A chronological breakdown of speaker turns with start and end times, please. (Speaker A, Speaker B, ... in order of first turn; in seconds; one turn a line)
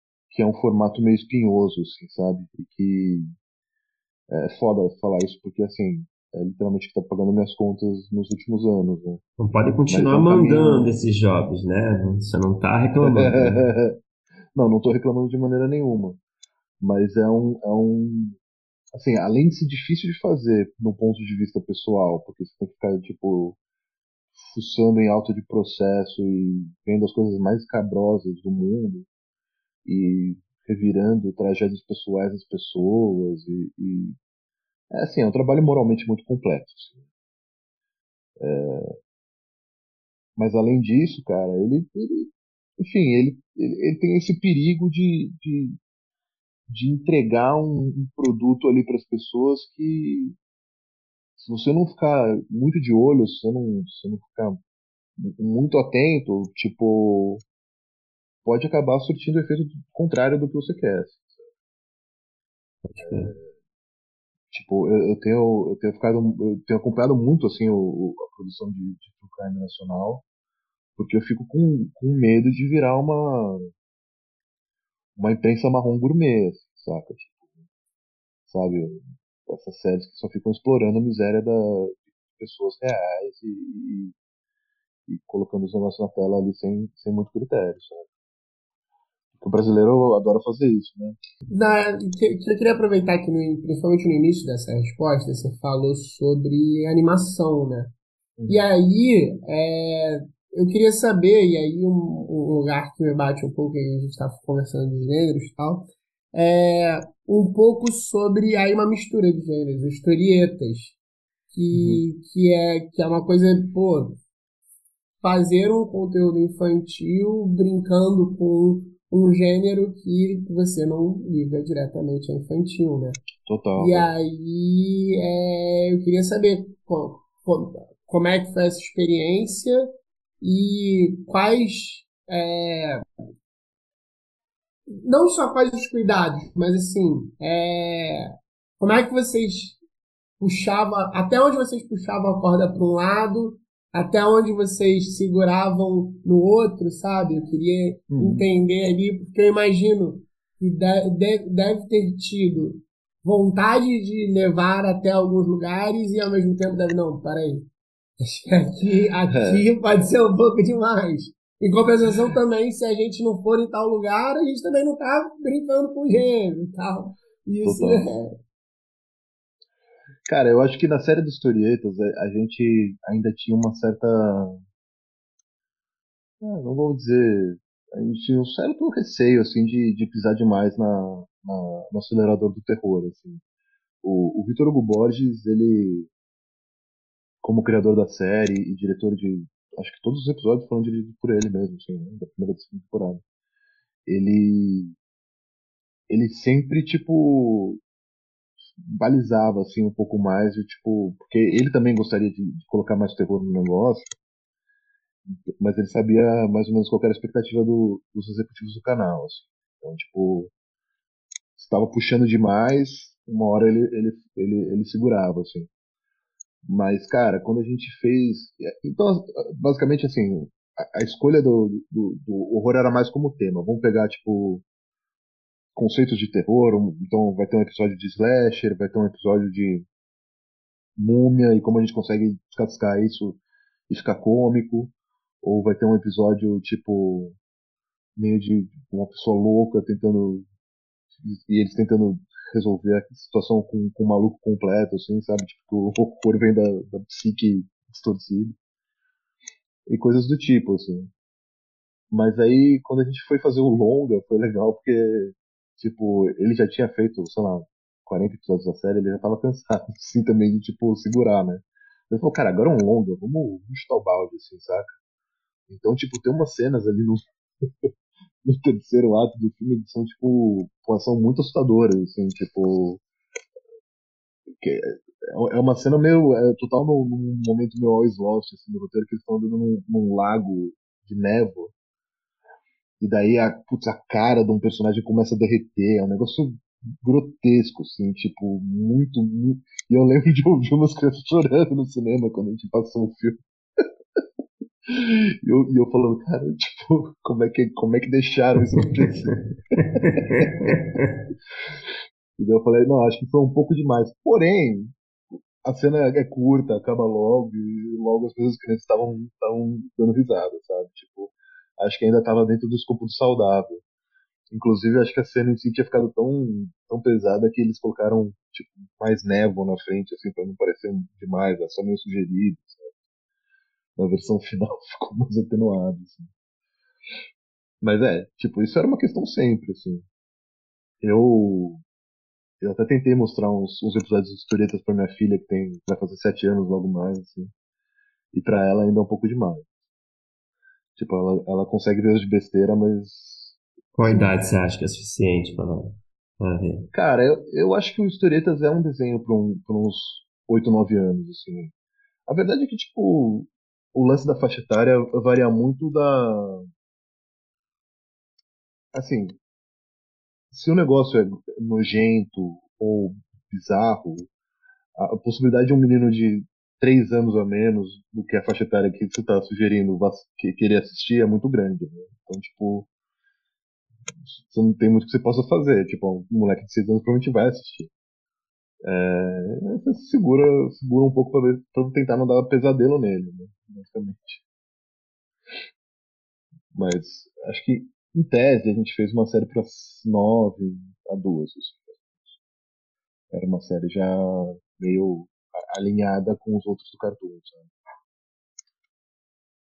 Speaker A: 0.3-3.4
Speaker A: 4.3-9.2
Speaker B: 9.4-13.7
Speaker A: 9.9-11.0
Speaker A: 13.0-13.9
Speaker A: 14.6-16.2
Speaker A: 16.8-18.4
Speaker A: 18.9-23.6
Speaker A: 24.4-29.1
Speaker A: 29.9-34.2
Speaker A: 34.9-37.0
Speaker A: 38.4-39.0
Speaker A: 40.4-45.8
Speaker A: 46.7-50.4
Speaker A: 51.4-54.6
Speaker A: 55.2-57.4
Speaker A: 58.5-61.5
Speaker B: 62.8-63.3
Speaker A: 63.0-63.5
Speaker A: 64.5-70.2
Speaker A: 71.0-73.7
Speaker A: 75.2-77.4
Speaker A: 78.5-84.2
Speaker A: 85.1-88.1
Speaker A: 89.4-91.2
Speaker C: 91.5-97.9
Speaker A: 98.4-98.7
Speaker C: 98.5-111.0
Speaker C: 111.5-114.2
Speaker A: 111.7-112.0
Speaker C: 115.2-123.2
Speaker A: 123.4-124.1
Speaker C: 123.8-129.8
Speaker C: 130.4-133.0
Speaker C: 134.9-139.8
Speaker C: 140.4-157.7
Speaker A: 148.1-148.5
Speaker C: 158.2-168.4
Speaker A: 159.3-159.7
Speaker A: 167.6-168.1
Speaker A: 170.3-174.6
Speaker A: 176.4-183.4
Speaker A: 184.0-186.1
Speaker A: 187.4-193.2
Speaker A: 194.1-194.9
Speaker A: 196.1-197.8
Speaker A: 198.8-204.2
Speaker A: 205.3-210.5
Speaker A: 211.6-215.7
Speaker A: 216.7-224.6
Speaker A: 225.8-229.9
Speaker A: 231.0-237.4
Speaker A: 238.2-240.4
Speaker A: 241.2-248.6
Speaker A: 249.9-251.1
Speaker A: 252.1-264.9
Speaker A: 265.7-267.2
Speaker A: 268.4-273.0
Speaker A: 274.6-281.7
Speaker A: 283.0-293.8
Speaker A: 294.9-300.8
Speaker B: 299.8-301.2
Speaker A: 302.4-304.9
Speaker A: 305.6-313.8
Speaker A: 314.5-322.9
Speaker A: 324.0-326.3
Speaker A: 327.8-330.1
Speaker A: 331.0-331.8
Speaker A: 332.6-337.5
Speaker A: 338.3-339.7
Speaker A: 341.0-344.3
Speaker B: 344.0-346.9
Speaker A: 346.9-351.7
Speaker A: 352.3-356.7
Speaker A: 358.9-359.3
Speaker A: 360.5-364.3
Speaker A: 365.0-372.9
Speaker A: 374.2-377.9
Speaker A: 378.8-384.4
Speaker A: 386.7-392.4
Speaker A: 393.3-397.7